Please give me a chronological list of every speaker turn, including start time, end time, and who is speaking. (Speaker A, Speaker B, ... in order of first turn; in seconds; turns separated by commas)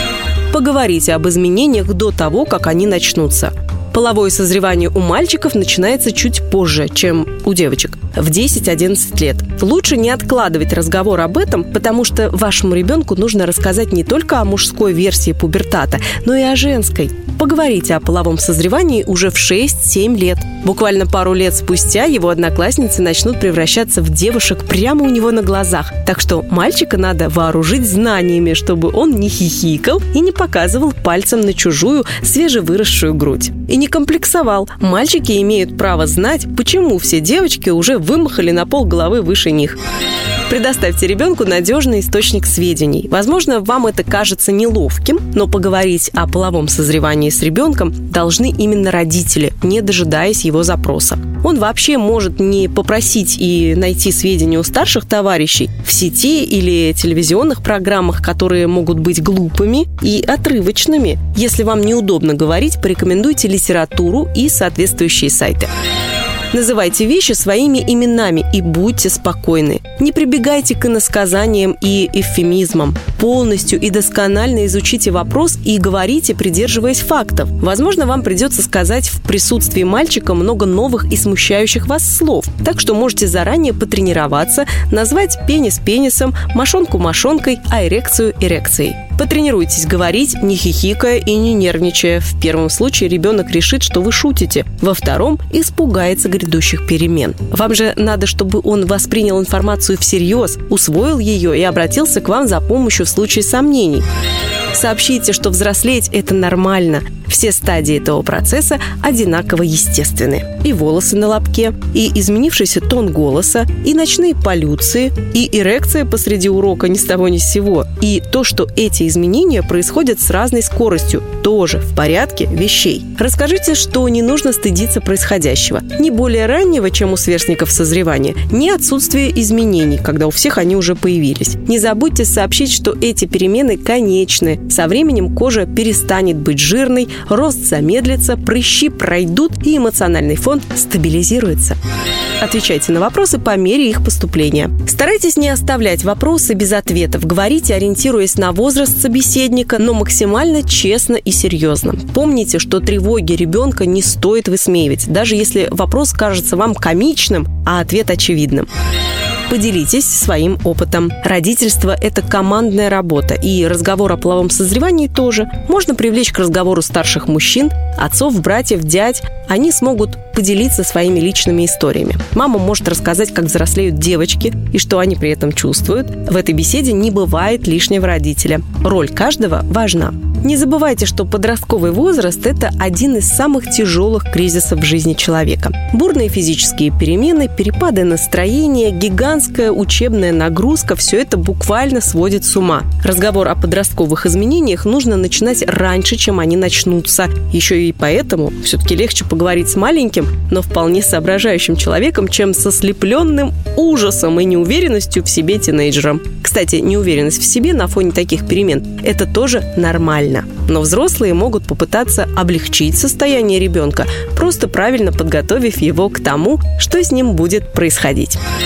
Speaker A: 0.5-39.8, Speaker A: 40.5-65.7, Speaker A: 66.5-104.0, Speaker A: 104.7-141.8, Speaker A: 142.4-158.7, Speaker A: 159.5-218.4